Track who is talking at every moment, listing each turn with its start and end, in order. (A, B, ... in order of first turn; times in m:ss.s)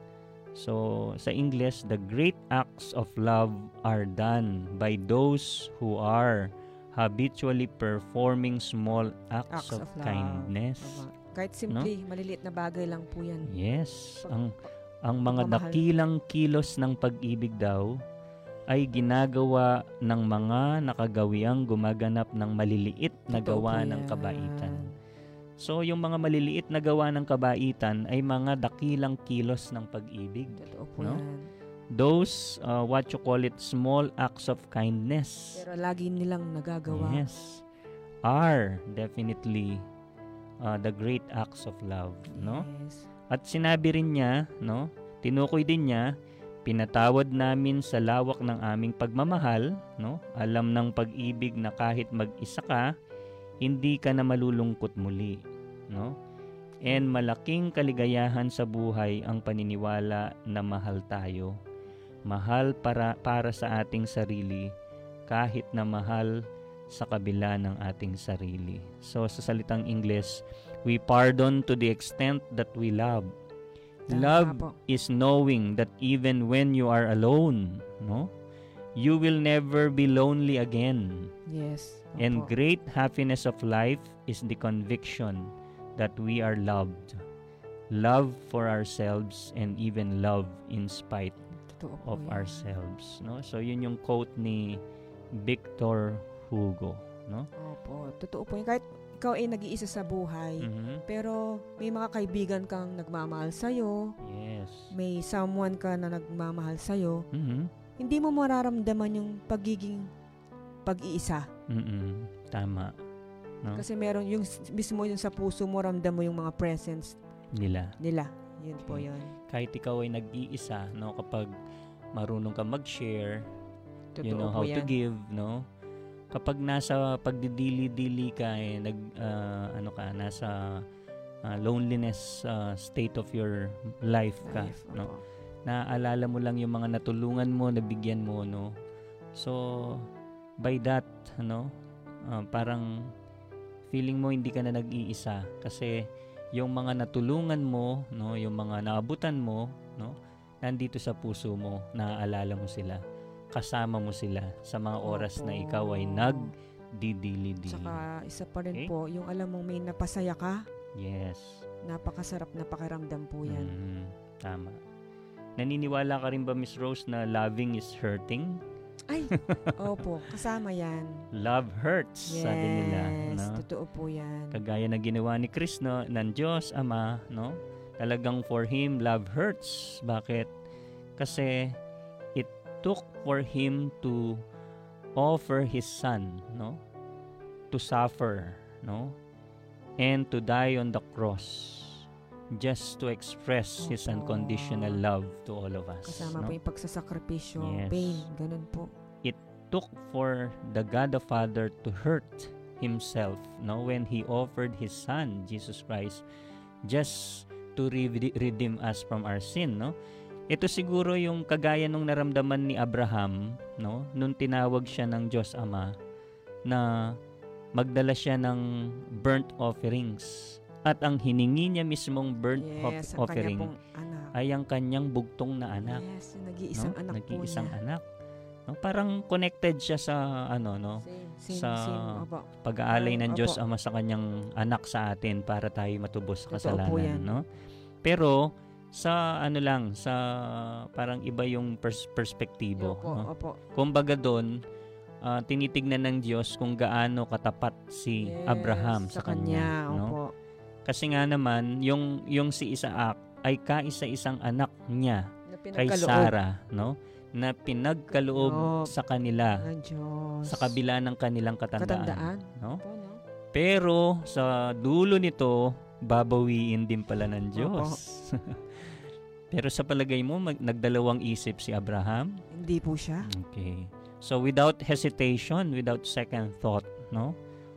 0:00.6-0:11.0 A
0:09.5-0:13.5 B
0:13.5-0:14.5 A
0:15.1-0:17.9 A
0:15.2-0:15.8 B
0:18.7-0:24.9 A
0:23.3-0:24.9 B
0:25.6-0:31.2 A
0:30.6-0:31.5 B
0:32.0-0:35.6 A
0:35.5-0:37.3 B
0:36.9-0:37.6 A
0:38.3-0:39.8 A
0:40.6-0:42.7 A
0:42.3-0:43.1 B
0:43.3-0:46.1 A
0:46.7-0:52.9 A
0:53.6-0:56.2 A
0:56.9-1:01.6 A
1:02.3-1:04.7 A
1:05.3-1:06.4 A
1:06.9-1:13.3 A
1:14.1-1:18.3 A
1:14.1-1:14.8 B
1:19.0-1:21.3 A
1:21.5-1:22.5 B
1:22.2-1:27.2 A
1:27.9-1:31.4 A
1:31.7-1:32.7 B
1:32.0-1:34.8 A
1:35.4-1:37.5 A
1:37.6-1:44.2 B
1:40.6-1:41.0 A
1:44.2-1:44.9 A
1:44.9-1:47.2 B
1:47.3-1:47.7 A
1:48.0-1:50.1 B
1:50.8-1:51.5 B
1:51.7-1:53.0 A
1:53.7-1:57.2 B
1:57.5-1:57.9 A
1:58.0-1:59.4 B
1:58.9-2:01.5 A
2:02.2-2:03.5 A
2:04.2-2:04.9 B
2:04.2-2:05.7 A
2:06.3-2:10.8 A
2:11.5-2:15.1 A
2:14.4-2:15.2 B
2:15.7-2:18.7 A
2:19.4-2:20.1 A
2:20.6-2:21.7 A
2:22.3-2:23.1 A
2:23.9-2:33.0 A
2:33.5-2:37.9 A
2:35.0-2:36.5 B
2:37.7-2:40.6 B
2:41.0-2:41.6 A
2:41.9-2:43.7 B
2:43.5-2:44.8 A
2:45.6-2:48.6 A
2:49.1-2:51.1 B
2:49.5-2:49.8 A
2:51.4-2:53.6 A
2:52.3-2:54.6 B
2:54.5-3:00.5 A
3:01.2-3:01.8 A
3:02.4-3:04.4 A
3:05.2-3:06.8 A
3:07.7-3:09.2 A
3:10.0-3:16.6 A
3:13.8-3:15.0 B
3:16.1-3:18.9 B
3:17.6-3:18.3 A
3:19.2-3:26.2 A
3:26.9-3:30.0 A
3:30.5-3:36.0 A
3:36.7-3:37.2 A
3:37.8-3:43.7 A
3:42.6-3:44.3 B
3:44.4-3:46.0 A
3:45.8-3:47.8 B
3:46.8-3:48.0 A
3:48.7-3:57.4 A
3:51.0-3:53.6 B
3:56.5-3:57.4 B
3:58.0-4:04.5 A
4:02.8-4:03.6 B
4:05.2-4:10.2 A
4:08.2-4:10.3 B
4:10.9-4:19.6 A
4:15.5-4:16.3 B
4:18.1-4:18.9 B
4:19.6-4:20.7 B
4:20.5-4:22.8 A
4:21.8-4:23.2 B
4:23.5-4:28.9 A
4:27.6-4:28.0 B
4:29.5-4:32.4 A
4:32.5-4:33.3 B
4:33.3-4:37.4 A